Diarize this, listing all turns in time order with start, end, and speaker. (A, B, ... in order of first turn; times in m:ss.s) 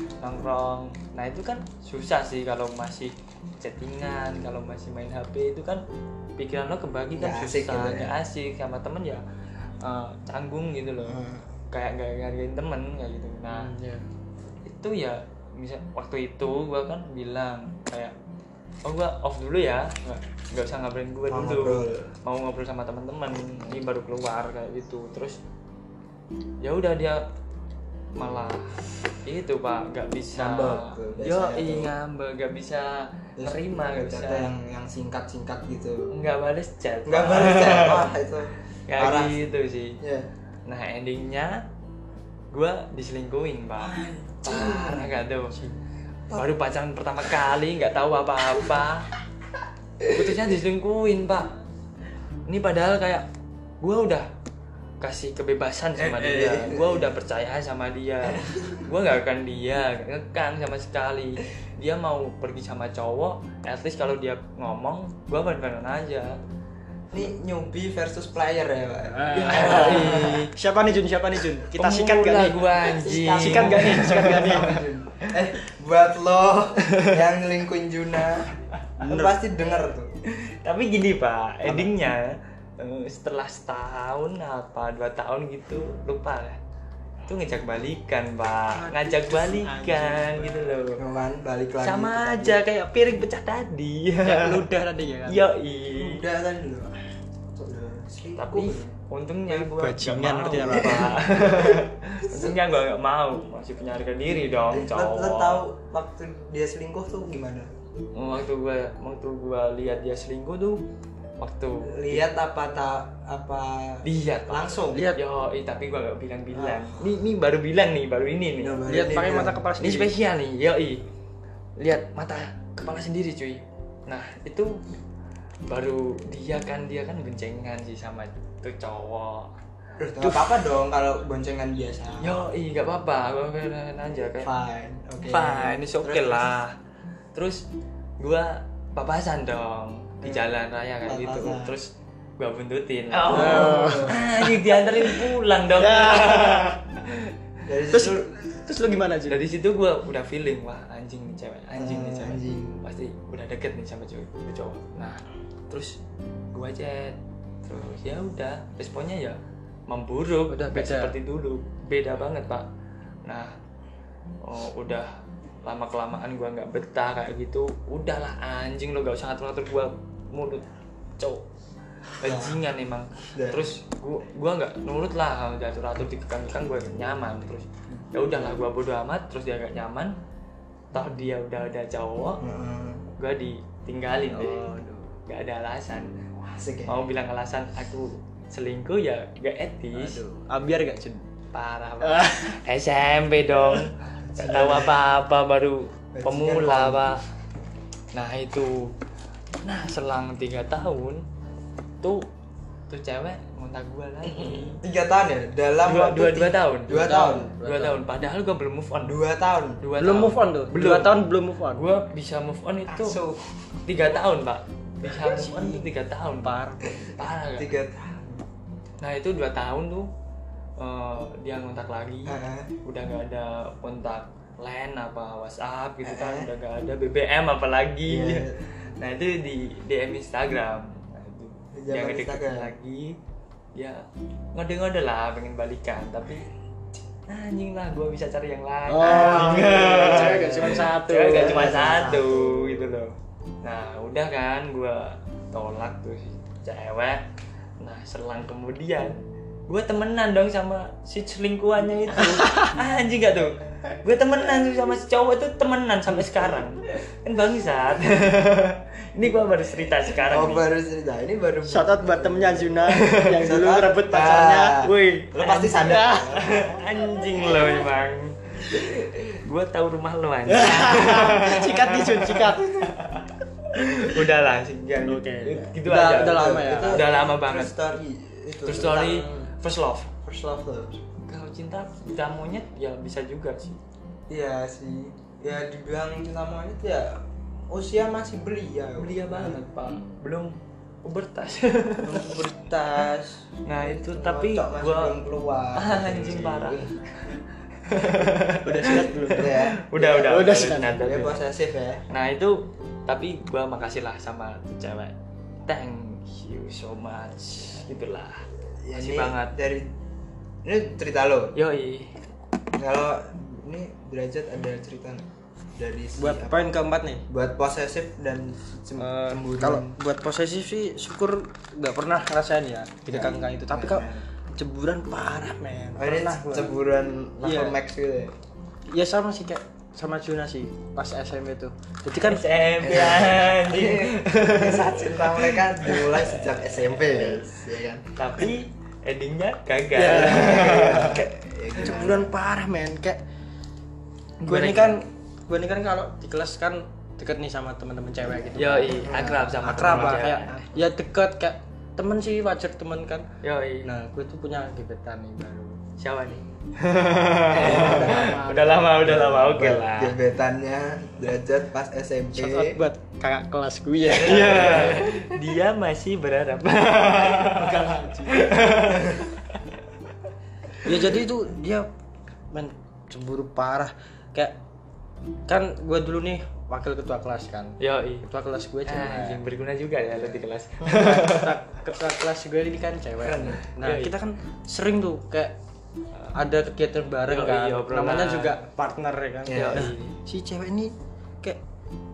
0:00.2-0:05.8 A
0:06.4-0:09.2 A
0:07.1-0:08.1 B
0:09.8-0:13.7 A
0:11.0-0:11.5 B
0:13.5-0:14.1 C
0:14.6-0:18.1 A
0:18.8-0:25.4 A
0:21.3-0:22.1 B
0:26.6-0:27.2 A
0:28.2-0:34.5 A
0:30.3-0:31.9 B
0:33.4-0:36.1 B
0:36.1-0:38.1 A
0:37.0-0:40.3 B
0:38.9-0:40.0 A
0:40.6-0:41.6 A
0:42.5-0:45.6 A
0:43.8-0:45.2 B
0:46.3-0:49.1 A
0:50.1-0:51.5 A
0:52.5-0:53.2 A
0:53.8-0:54.3 A
0:55.0-1:06.4 A
0:56.0-0:57.1 B
0:58.3-0:58.8 B
1:07.1-1:10.5 B
1:09.1-1:14.8 C
1:09.3-1:10.5 A
1:11.7-1:14.5 A
1:13.0-1:20.1 B
1:19.0-1:19.4 C
1:20.3-1:26.6 A
1:21.6-1:21.9 B
1:27.2-1:31.0 A
1:28.7-1:30.8 C
1:31.0-1:32.6 B
1:31.8-1:34.6 A
1:34.2-1:35.5 C
1:35.3-1:36.2 A
1:35.9-1:37.0 B
1:37.5-1:38.9 B
1:38.4-1:45.6 A
1:39.5-1:41.2 C
1:40.7-1:42.6 B
1:44.7-1:47.7 B
1:48.1-1:50.8 A
1:51.4-1:52.2 A
1:51.8-1:55.1 B
1:54.0-1:58.8 A
1:54.9-1:55.2 C
1:56.5-1:57.1 B
1:58.6-1:59.7 B
1:58.9-2:00.1 C
1:59.8-2:01.0 A
2:01.8-2:04.8 A
2:05.7-2:09.5 A
2:10.0-2:12.4 B
2:10.2-2:10.5 C
2:12.2-2:14.5 A
2:14.3-2:16.5 B
2:15.3-2:16.8 A
2:17.3-2:17.6 A
2:18.2-2:27.3 A
2:20.2-2:20.5 B
2:21.0-2:21.7 B
2:23.2-2:24.3 B
2:23.3-2:25.2 C
2:25.8-2:26.8 C
2:27.6-2:28.4 B
2:27.9-2:29.4 C
2:29.3-2:36.0 A
2:31.8-2:32.8 B
2:36.5-2:42.7 A
2:40.5-2:41.1 C
2:43.2-2:43.6 A
2:44.4-2:45.1 A
2:45.6-2:51.5 A
2:52.2-3:00.1 A
2:52.2-2:52.6 B
2:53.3-2:53.7 B
2:57.9-2:58.6 B
3:00.9-3:02.4 A
3:02.4-3:03.1 B
3:03.2-3:04.6 A
3:04.3-3:05.2 C
3:05.3-3:06.1 A
3:06.5-3:07.0 B
3:06.8-3:10.2 A
3:09.9-3:11.2 C
3:11.5-3:17.2 A
3:12.0-3:12.6 C
3:14.3-3:15.0 B
3:16.1-3:17.1 B
3:18.1-3:18.9 A
3:19.6-3:21.2 A
3:22.0-3:22.3 A
3:22.9-3:24.8 A
3:24.2-3:27.5 B
3:25.8-3:29.2 A
3:26.9-3:28.0 C
3:29.0-3:29.8 B
3:29.8-3:33.2 A
3:30.0-3:31.9 C
3:32.9-3:33.4 B
3:33.8-3:36.6 A
3:35.0-3:37.0 C
3:36.9-3:38.4 B
3:37.1-3:37.7 A
3:39.0-3:40.1 A
3:40.8-3:53.2 A
3:42.2-3:42.7 B
3:46.0-3:46.5 B
3:48.0-3:48.6 B
3:51.7-3:52.7 B
3:53.7-3:56.5 A
3:57.3-4:07.2 A
3:58.9-4:01.8 C
3:59.0-4:03.0 B
4:07.8-4:20.7 A
4:20.3-4:26.8 B
4:21.6-4:24.8 C
4:24.8-4:37.7 A
4:25.8-4:26.4 C
4:30.5-4:32.9 C
4:32.6-4:33.0 B
4:35.0-4:37.0 C
4:36.0-4:39.5 B
4:38.6-4:40.1 A
4:40.2-4:41.0 B
4:41.2-4:43.8 A
4:44.3-4:49.6 B
4:49.0-4:52.4 A
4:52.1-4:57.1 B
4:52.1-4:52.4 C
4:53.6-4:55.2 A
4:55.7-5:01.4 A
4:58.1-5:01.1 C
4:59.3-5:02.0 B
5:02.1-5:05.1 A
5:05.6-5:09.6 A
5:08.8-5:09.9 B
5:10.6-5:11.6 B
5:11.5-5:12.2 A
5:12.8-5:16.6 B
5:16.2-5:17.2 C
5:17.3-5:20.0 B
5:19.0-5:26.7 C
5:23.1-5:24.2 B
5:26.0-5:28.4 B
5:27.4-5:27.8 C
5:28.9-5:32.4 C
5:32.2-5:36.4 A
5:32.8-5:38.0 B
5:38.2-5:41.3 A
5:39.9-5:41.2 C
5:40.1-5:42.3 B
5:41.8-5:43.2 C
5:44.4-5:45.0 A
5:44.4-5:53.3 C
5:48.6-5:50.5 A
5:49.0-5:50.8 B
5:53.4-5:53.9 A
5:53.8-5:55.8 C
5:56.0-6:00.2 A
5:57.4-5:58.4 B
5:57.5-5:59.1 C
5:58.9-6:02.8 B
6:02.3-6:05.1 C
6:04.1-6:09.7 A
6:04.1-6:05.1 B
6:07.3-6:08.7 C
6:10.8-6:11.9 C
6:12.5-6:14.6 C
6:15.5-6:19.4 C
6:17.8-6:18.2 A
6:18.8-6:21.5 A
6:20.8-6:25.5 C
6:23.3-6:23.6 B
6:23.3-6:24.1 A
6:26.3-6:31.6 C
6:27.2-6:28.6 A
6:29.4-6:29.9 B
6:29.5-6:30.2 A